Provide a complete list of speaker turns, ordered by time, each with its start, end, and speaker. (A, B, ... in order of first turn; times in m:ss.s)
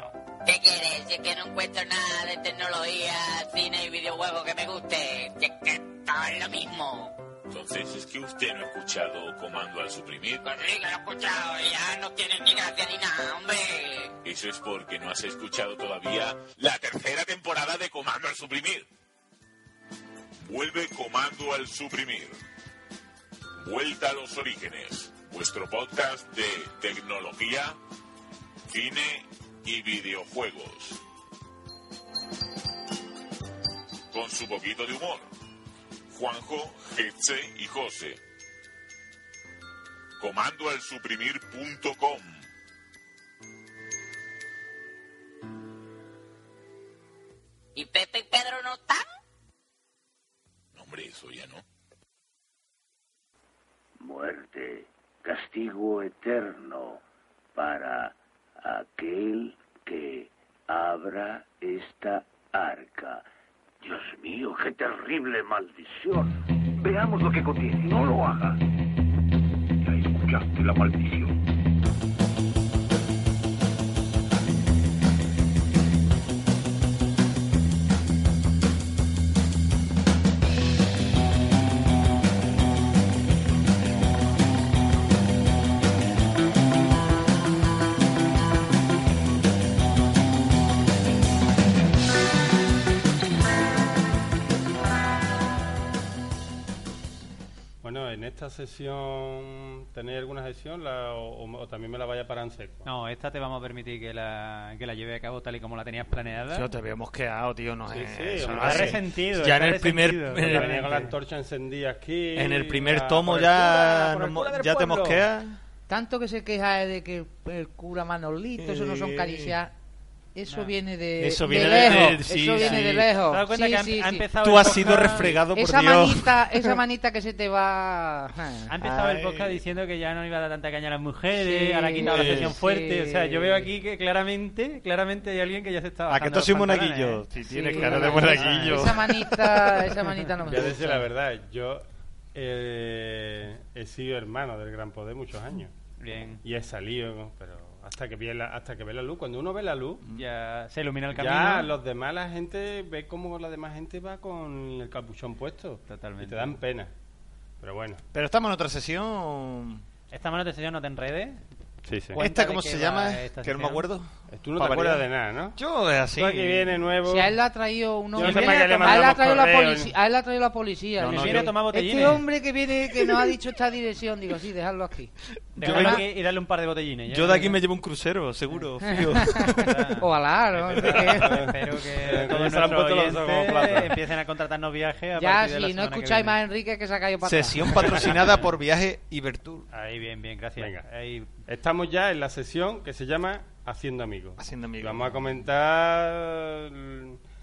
0:00.4-0:07.1 A
0:07.5-0:10.4 B
0:10.4-0:14.1 A
0:14.2-0:18.9 B
0:20.4-0:22.4 B
0:23.6-0:27.8 B
0:28.7-0:31.0 B
0:34.1-0:35.3 B
0:36.1-0:38.2 B
0:40.2-0:42.4 B
0:47.7-0:49.0 A
0:50.7-0:51.6 B
0:54.0-0:57.0 C
0:57.6-1:03.2 C
1:03.8-1:08.6 C
1:09.8-1:11.3 C
1:37.8-1:42.9 D
1:42.8-1:46.7 E
1:46.5-1:50.9 F
1:47.9-1:49.0 D
1:48.4-1:51.1 E
1:50.4-1:55.2 D
1:52.4-1:55.6 F
1:55.9-1:59.7 G
1:58.6-1:59.6 F
2:00.3-2:08.7 G
2:00.5-2:00.7 E
2:01.2-2:03.1 F
2:01.6-2:05.4 E
2:04.4-2:06.7 F
2:08.7-2:18.7 E
2:08.8-2:09.6 F
2:11.4-2:13.7 G
2:12.1-2:12.5 F
2:16.1-2:19.7 F
2:17.4-2:21.0 G
2:20.4-2:25.7 D
2:26.0-2:26.4 E
2:26.4-2:30.0 D
2:30.1-2:31.7 E
2:31.1-2:36.9 D
2:35.9-2:36.6 E
2:37.6-2:38.0 D
2:38.1-2:39.8 F
2:40.1-2:41.4 E
2:41.9-2:42.2 D
2:42.1-2:46.8 F
2:42.2-2:43.9 E
2:44.3-2:45.6 D
2:46.1-2:47.4 D
2:47.0-2:56.0 G
2:48.1-2:49.9 D
2:48.2-2:49.1 E
2:51.0-2:51.5 F
2:51.0-2:52.2 E
2:55.5-2:56.1 F
2:55.6-2:57.6 E
2:57.1-2:59.7 F
2:58.8-2:59.4 G
2:59.3-3:06.4 E
3:00.0-3:01.4 G
3:01.0-3:04.0 D
3:05.2-3:08.1 G
3:07.2-3:09.7 F
3:08.0-3:08.4 E
3:09.7-3:11.3 E
3:10.6-3:10.8 D
3:11.5-3:17.2 D
3:14.4-3:15.3 F